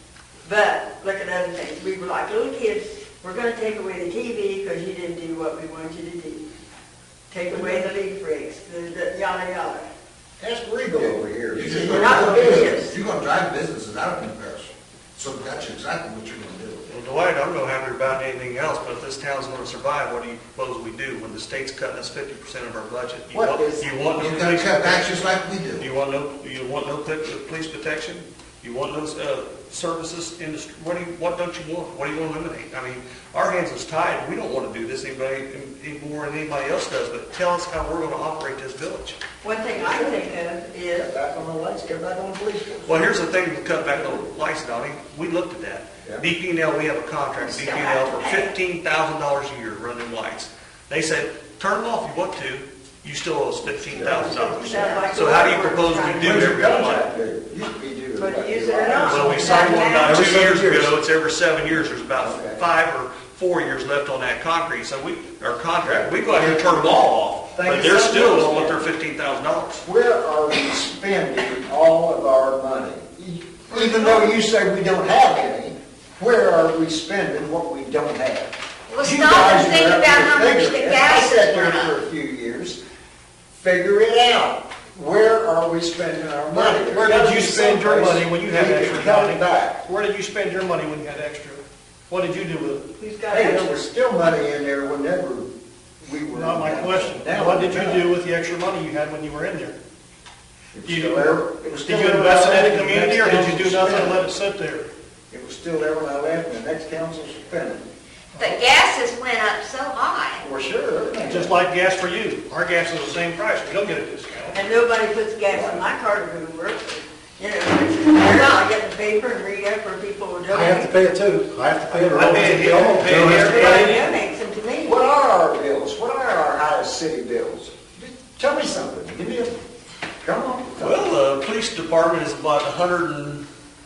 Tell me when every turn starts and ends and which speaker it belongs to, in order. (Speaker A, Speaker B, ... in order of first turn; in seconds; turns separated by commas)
Speaker A: 0.4-6.5, Speaker A: 7.3-9.9, Speaker B: 7.5-7.9, Speaker B: 10.4-12.7, Speaker C: 11.5-16.9, Speaker A: 11.7-12.9, Speaker D: 16.9-39.2, Speaker B: 23.3-24.0, Speaker C: 24.1-25.9, Speaker A: 39.4-41.1, Speaker B: 39.8-40.3, Speaker B: 40.9-43.1, Speaker D: 42.9-57.1, Speaker A: 47.4-48.5, Speaker B: 53.9-54.9, Speaker A: 53.9-56.8, Speaker B: 56.2-60.9, Speaker A: 58.2-59.9, Speaker D: 59.0-69.8, Speaker B: 62.2-62.6, Speaker B: 65.8-66.8, Speaker B: 67.5-68.8, Speaker B: 69.8-82.8, Speaker C: 79.0-79.8, Speaker E: 79.0-81.2, Speaker C: 80.5-81.8, Speaker B: 83.5-89.8, Speaker F: 86.5-92.9, Speaker A: 93.0-93.8, Speaker B: 93.3-95.5, Speaker B: 96.0-98.1, Speaker F: 96.3-99.8, Speaker B: 100.7-104.2, Speaker F: 100.8-104.9, Speaker B: 105.3-107.9, Speaker E: 108.4-110.3, Speaker B: 110.4-111.5, Speaker F: 111.2-114.6, Speaker A: 114.5-121.0, Speaker B: 115.5-115.9, Speaker G: 120.5-123.9, Speaker F: 122.0-123.9, Speaker A: 123.3-125.0, Speaker B: 124.8-129.6, Speaker B: 130.2-131.0, Speaker D: 130.8-133.4